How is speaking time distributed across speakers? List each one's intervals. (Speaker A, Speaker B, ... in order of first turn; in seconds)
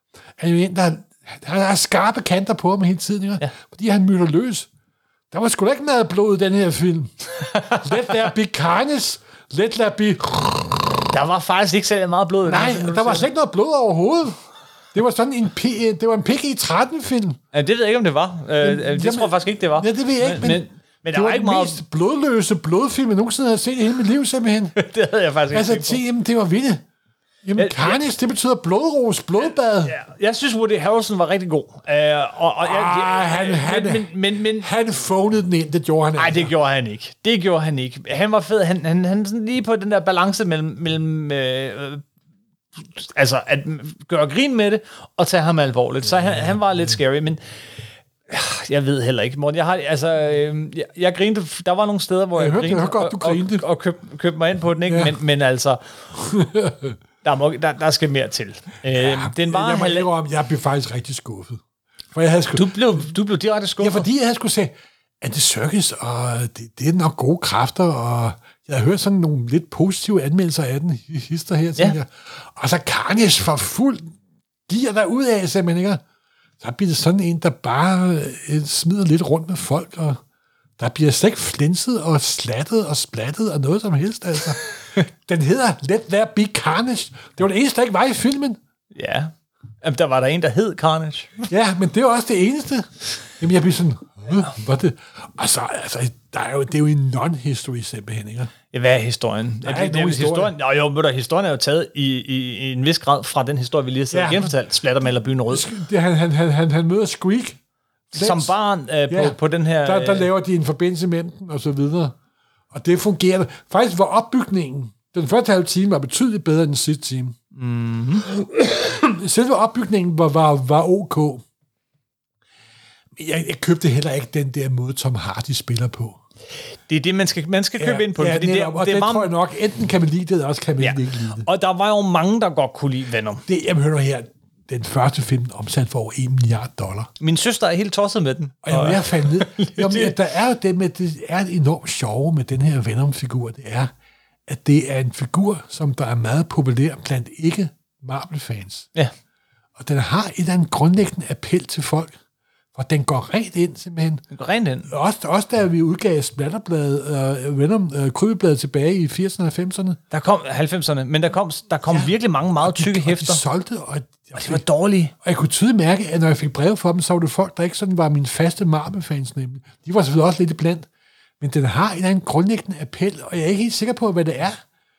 Speaker A: 0.4-4.7, 5.3-10.9, 12.4-14.4, 14.9-17.4, 18.6-24.8, 25.5-26.8, 27.4-30.0, 32.6-36.5, 52.4-53.6, 54.9-55.1, 56.1-57.0, 58.9-61.6, 62.1-63.1, 63.8-74.1, 74.7-76.0, 76.6-80.2, 80.8-88.6, 91.5-98.5, 99.6-100.5, 104.1-104.5, 105.5-107.6, 108.1-108.5, 109.1-112.1, 112.7-117.3, 118.3-121.4, 123.2-126.2, 127.8-131.4, 133.5-137.1, 138.6-143.9, 144.5-148.9, 149.8-152.2, 152.7-154.2, 154.9-160.0, 161.9-164.6, 165.2-170.9, 171.4-174.6
Speaker B: 7.5-7.9, 11.1-13.3, 17.5-21.8, 24.8-26.0, 27.6-28.0, 29.9-34.7, 36.2-42.0, 42.8-47.4, 48.3-55.8, 57.2-60.1, 62.5-64.1, 88.9-91.5, 98.7-105.7, 108.1-110.3, 117.5-118.3, 126.9-129.3, 130.8-133.4, 137.2-140.2, 154.3-154.9, 160.1-163.4, 164.3-165.1